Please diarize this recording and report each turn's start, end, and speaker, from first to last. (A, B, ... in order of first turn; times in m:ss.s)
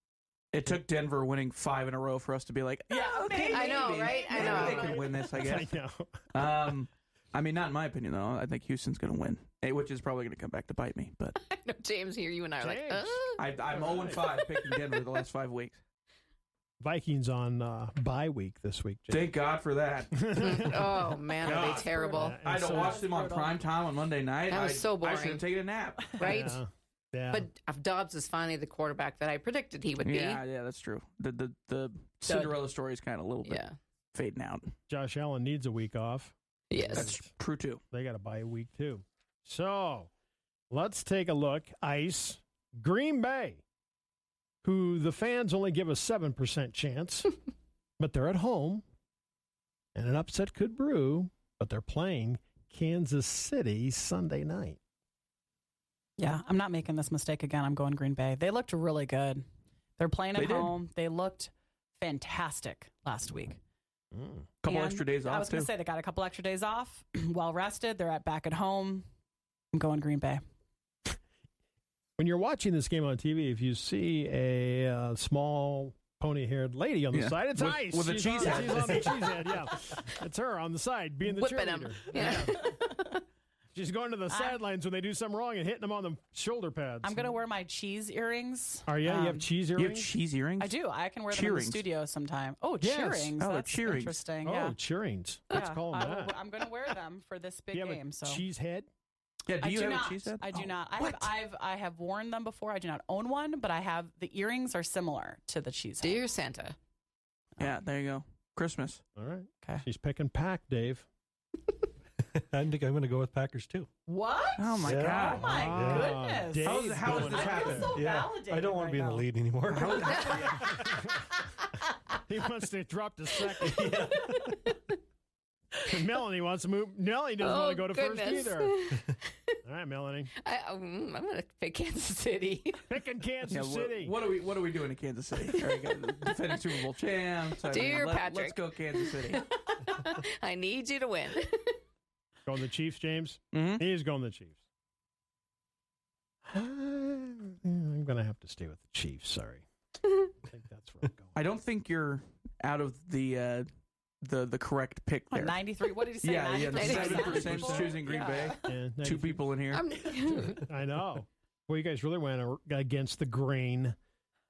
0:00.5-0:05.7 A
0:02.9-0:05.0 B
0:03.0-0:05.2 C
0:04.4-0:06.4 D
0:06.3-0:11.4 A
0:11.4-0:14.3 C
0:12.6-0:14.3 D
0:13.4-0:15.8 A
0:16.8-0:19.3 D
0:19.1-0:20.2 A
0:20.1-0:23.0 D
0:20.4-0:22.4 C
0:21.4-0:21.9 A
0:21.6-0:23.6 B
0:22.4-0:26.4 A
0:24.5-0:25.5 C
0:26.2-0:26.6 C
0:26.2-0:27.5 D
0:27.3-0:30.4 C
0:30.0-0:34.7 A
0:32.2-0:32.6 C
0:33.4-0:33.8 C
0:34.9-0:37.3 D
0:36.7-0:37.2 C
0:36.9-0:37.8 A
0:37.9-0:40.1 D
0:40.7-0:43.6 D
0:44.6-0:47.4 D
0:48.0-0:48.8 D
0:50.0-0:54.8 D
0:56.2-0:59.4 B
1:00.0-1:03.6 B
1:00.4-1:00.8 A
1:04.1-1:04.5 D
1:04.6-1:05.7 A
1:04.7-1:09.0 B
1:09.7-1:10.4 B
1:12.2-1:22.7 D
1:17.1-1:19.6 A
1:21.2-1:23.0 C
1:23.8-1:27.4 D
1:24.3-1:24.6 B
1:27.0-1:29.5 B
1:28.9-1:30.1 D
1:29.8-1:30.7 A
1:30.6-1:34.8 B
1:31.3-1:31.8 A
1:32.8-1:33.4 D
1:33.4-1:34.2 A
1:34.4-1:36.3 D
1:35.5-1:38.4 B
1:37.7-1:38.9 D
1:39.5-1:40.7 A
1:39.6-1:46.2 B
1:41.0-1:41.3 C
1:46.0-1:46.8 C
1:47.6-1:49.0 A
1:49.2-1:51.1 D
1:52.3-1:53.9 E
1:54.1-1:59.3 B
1:54.6-1:55.6 A
1:54.8-1:56.2 E
1:55.3-1:58.0 D
1:56.6-1:57.9 A
1:57.0-2:01.0 E
1:59.7-2:00.7 A
1:59.8-2:00.5 C
1:59.8-2:00.3 B
2:00.7-2:01.2 D
2:02.3-2:04.2 D
2:03.6-2:04.6 E
2:05.9-2:08.8 D
2:07.4-2:09.2 C
2:09.6-2:10.3 D
2:10.4-2:12.9 C
2:12.9-2:14.2 D
2:13.5-2:19.4 A
2:17.7-2:21.8 C
2:22.5-2:24.6 D
2:23.5-2:23.8 A
2:26.5-2:29.6 D
2:30.4-2:31.4 D
2:31.4-2:33.7 A
2:34.2-2:35.6 A
2:35.3-2:38.6 B
2:36.2-2:39.8 A
2:36.8-2:37.3 C
2:36.9-2:38.0 D
2:38.6-2:39.4 D
2:39.7-2:40.7 C
2:40.5-2:44.0 D